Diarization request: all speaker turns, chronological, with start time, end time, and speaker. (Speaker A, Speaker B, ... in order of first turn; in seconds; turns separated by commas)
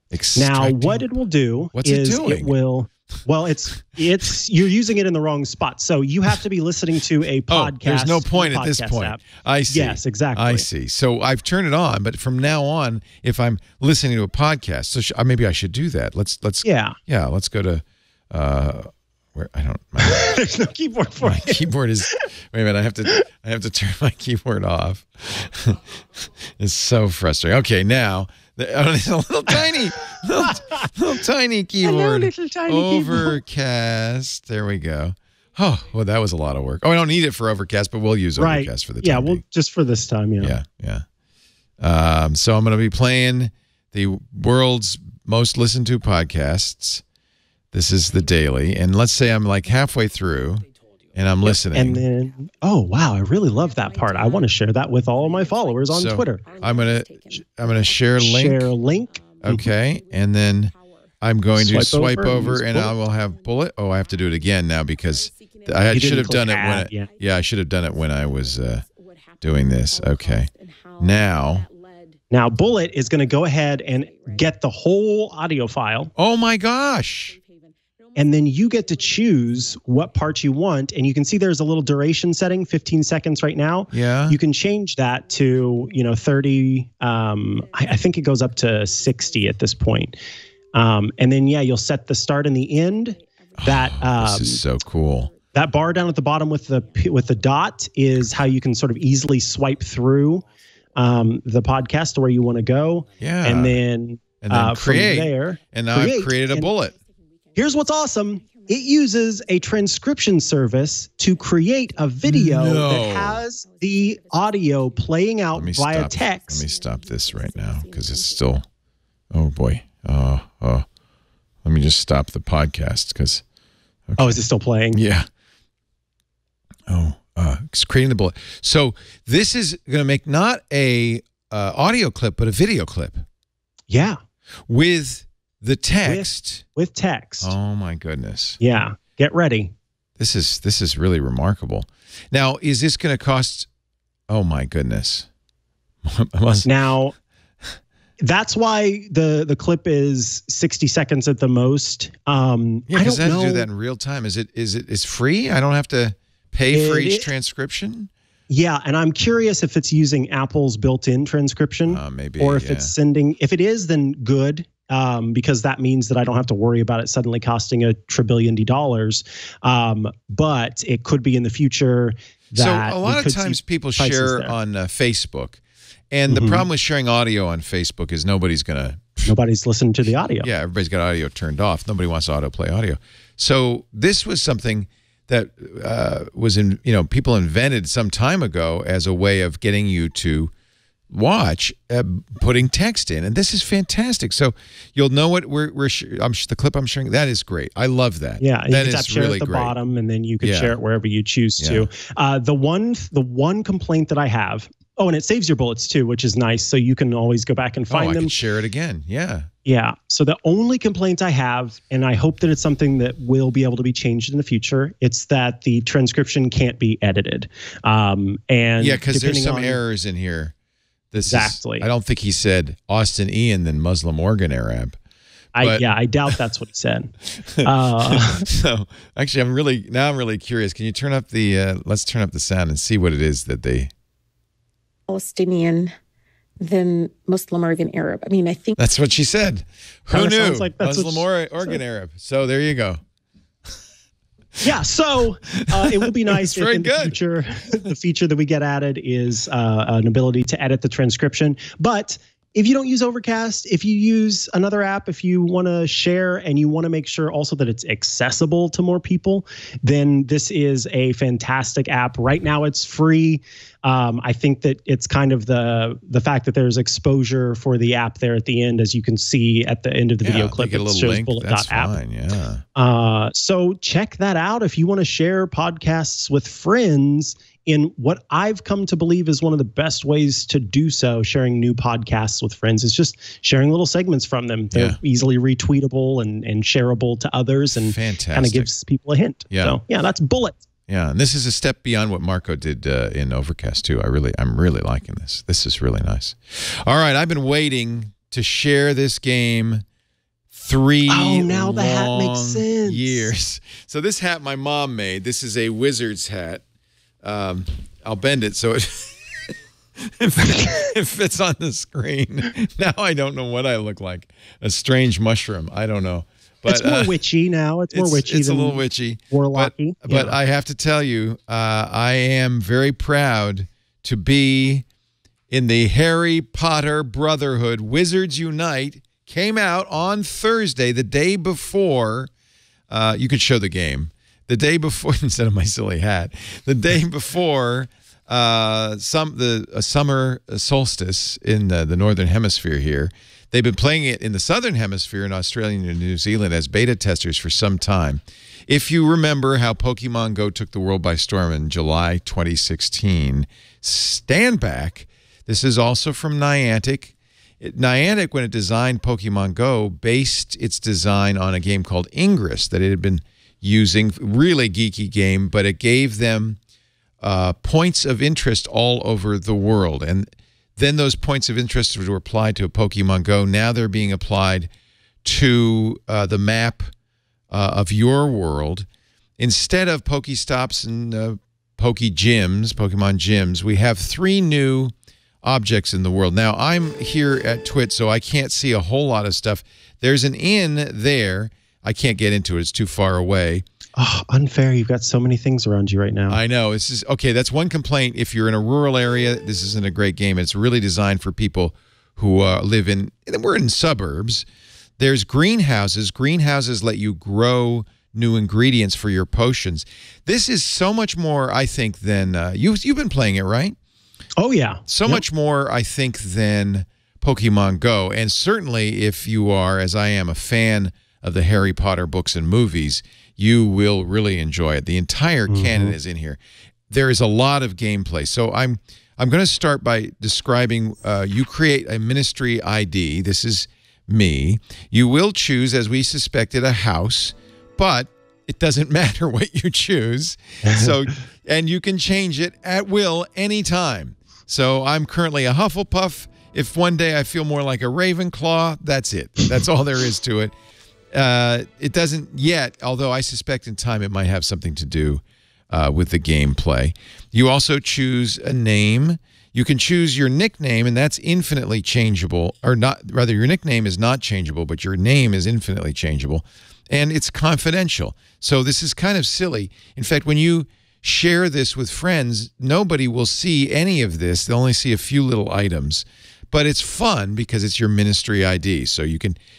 Speaker A: 0.1-1.1, Speaker B: 0.3-10.7, Speaker A: 1.7-2.5, Speaker A: 7.5-20.3, Speaker B: 16.6-17.0, Speaker B: 20.0-21.7, Speaker A: 21.2-25.8, Speaker A: 26.6-39.4, Speaker B: 30.4-30.9, Speaker B: 31.8-33.4, Speaker B: 38.4-40.5, Speaker A: 40.4-41.0, Speaker A: 41.8-47.0, Speaker A: 47.7-52.0, Speaker B: 51.4-56.5, Speaker C: 53.3-74.6, Speaker A: 55.9-58.7, Speaker B: 58.2-59.6, Speaker A: 59.4-68.8, Speaker B: 61.5-62.9, Speaker B: 65.9-67.1, Speaker A: 69.4-71.6, Speaker B: 72.3-76.1, Speaker C: 76.0-80.5, Speaker A: 76.2-77.3, Speaker B: 78.2-90.2, Speaker A: 83.9-84.4, Speaker C: 85.0-90.0, Speaker B: 90.7-94.6, Speaker C: 91.3-99.5, Speaker A: 93.6-95.3, Speaker B: 95.5-106.7, Speaker A: 103.2-103.8, Speaker A: 104.4-106.9, Speaker C: 106.1-118.5, Speaker B: 107.5-116.7, Speaker A: 112.2-113.4, Speaker A: 115.5-118.6, Speaker A: 119.3-120.8, Speaker A: 121.6-123.4, Speaker A: 124.1-125.3, Speaker B: 124.2-125.0, Speaker A: 126.9-133.2, Speaker B: 133.9-134.2, Speaker A: 134.7-136.6, Speaker B: 136.0-137.5, Speaker A: 137.4-138.6, Speaker B: 138.6-139.7, Speaker A: 140.2-143.7, Speaker A: 144.3-145.3, Speaker A: 146.0-146.7, Speaker B: 146.6-147.1, Speaker B: 148.2-153.7, Speaker A: 152.9-158.1, Speaker B: 156.7-157.3, Speaker B: 158.5-174.5, Speaker A: 161.9-162.9, Speaker A: 172.5-175.6, Speaker A: 176.1-179.3, Speaker B: 176.3-176.6, Speaker B: 179.2-180.5, Speaker A: 180.4-190.5, Speaker A: 191.1-199.7, Speaker B: 198.4-208.3, Speaker A: 200.4-200.7, Speaker A: 201.6-201.9, Speaker A: 207.9-209.5, Speaker B: 209.6-219.8, Speaker A: 218.8-220.5, Speaker A: 221.1-225.0, Speaker B: 221.3-221.9, Speaker A: 225.6-225.8, Speaker B: 225.6-228.5, Speaker A: 227.4-233.9, Speaker C: 235.1-235.9, Speaker C: 236.6-238.8, Speaker A: 238.8-243.0, Speaker B: 240.1-241.8, Speaker B: 244.6-272.0, Speaker A: 245.5-247.2, Speaker A: 270.2-272.6, Speaker B: 272.7-290.6, Speaker A: 284.7-285.0, Speaker A: 287.8-288.7, Speaker A: 289.5-289.8, Speaker A: 290.9-299.8, Speaker A: 300.5-306.6, Speaker B: 301.1-303.3, Speaker A: 307.2-317.1, Speaker B: 316.7-320.4, Speaker A: 317.9-324.9, Speaker A: 325.5-332.3, Speaker A: 332.9-366.6, Speaker A: 367.2-374.7, Speaker A: 375.2-376.9, Speaker A: 377.5-378.9, Speaker A: 379.4-393.6, Speaker B: 393.9-396.4, Speaker A: 396.3-404.4, Speaker A: 405.0-413.8, Speaker B: 414.4-415.2, Speaker A: 414.9-450.5, Speaker B: 425.5-425.9, Speaker B: 440.6-441.0, Speaker A: 451.1-479.4